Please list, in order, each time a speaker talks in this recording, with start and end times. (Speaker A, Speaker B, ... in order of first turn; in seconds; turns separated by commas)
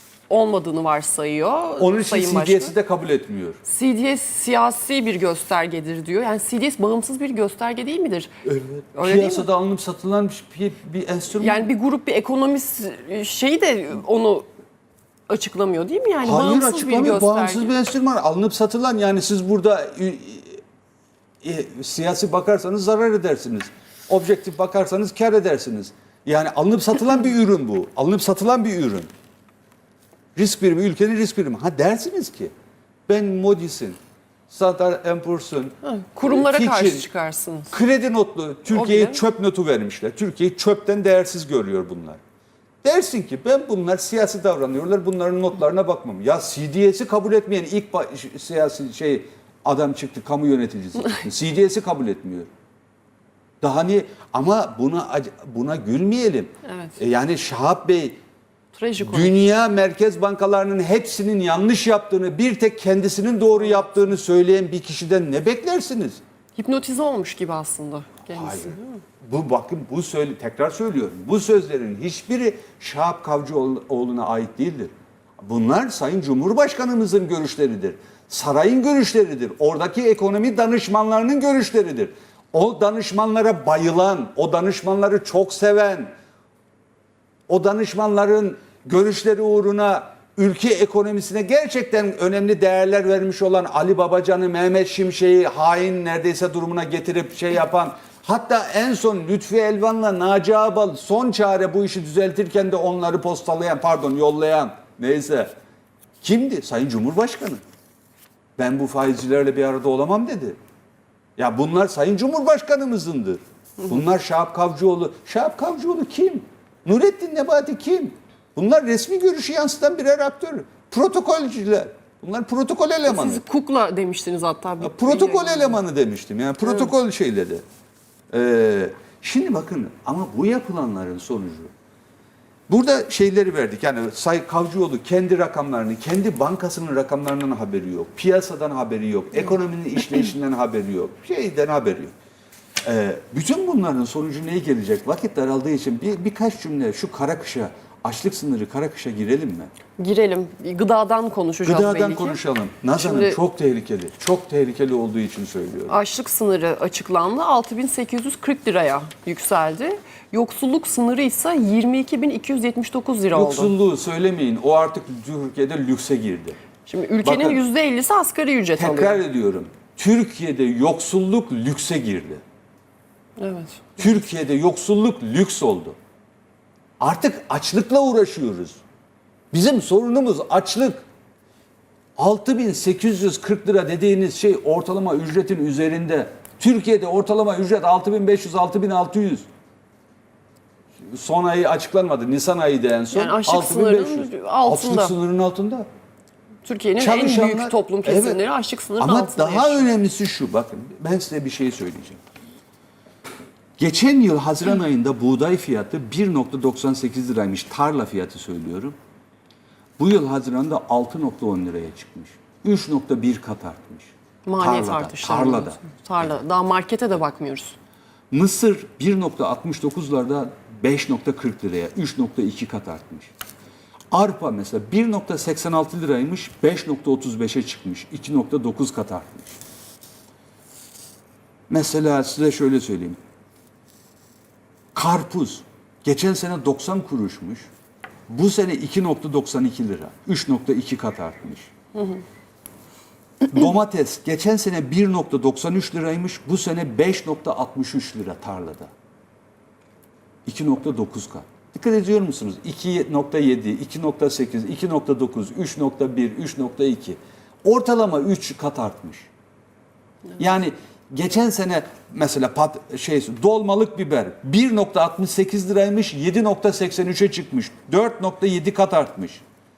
Speaker A: 0.3-2.7, Speaker B: 1.8-3.6, Speaker A: 3.6-8.3, Speaker B: 8.4-11.7, Speaker A: 8.9-9.5, Speaker A: 11.4-14.5, Speaker A: 15.3-17.7, Speaker B: 16.2-20.6, Speaker B: 21.4-29.1, Speaker B: 30.4-32.5, Speaker B: 33.1-34.0, Speaker B: 34.5-37.1, Speaker A: 35.8-37.7, Speaker B: 37.7-42.2, Speaker A: 38.7-39.2, Speaker B: 42.8-52.5, Speaker B: 53.6-58.2, Speaker A: 56.6-57.0, Speaker A: 58.7-59.5, Speaker B: 59.0-66.2, Speaker A: 66.5-69.0, Speaker B: 68.3-86.1, Speaker B: 87.5-105.5, Speaker B: 106.2-107.6, Speaker B: 108.6-110.6, Speaker B: 111.4-123.4, Speaker A: 123.0-125.8, Speaker B: 124.8-127.6, Speaker B: 128.3-131.7, Speaker B: 132.7-142.1, Speaker B: 142.8-149.7, Speaker A: 150.0-152.4, Speaker B: 151.6-156.0, Speaker A: 153.0-153.4, Speaker A: 155.9-163.7, Speaker B: 163.3-166.6, Speaker A: 166.8-169.2, Speaker B: 167.2-167.6, Speaker B: 168.8-172.4, Speaker A: 173.4-174.0, Speaker B: 174.0-175.9, Speaker B: 177.0-178.8, Speaker B: 179.5-181.0, Speaker B: 182.2-189.4, Speaker B: 191.0-195.9, Speaker A: 193.1-195.1, Speaker A: 196.6-199.9, Speaker B: 197.0-198.4, Speaker B: 199.0-202.2, Speaker B: 203.8-208.9, Speaker B: 210.0-215.8, Speaker A: 214.4-217.8, Speaker B: 218.3-223.3, Speaker B: 224.1-229.6, Speaker B: 231.7-233.2, Speaker B: 234.9-237.7, Speaker B: 238.3-241.7, Speaker B: 243.5-248.9, Speaker B: 250.4-259.3, Speaker B: 260.4-269.4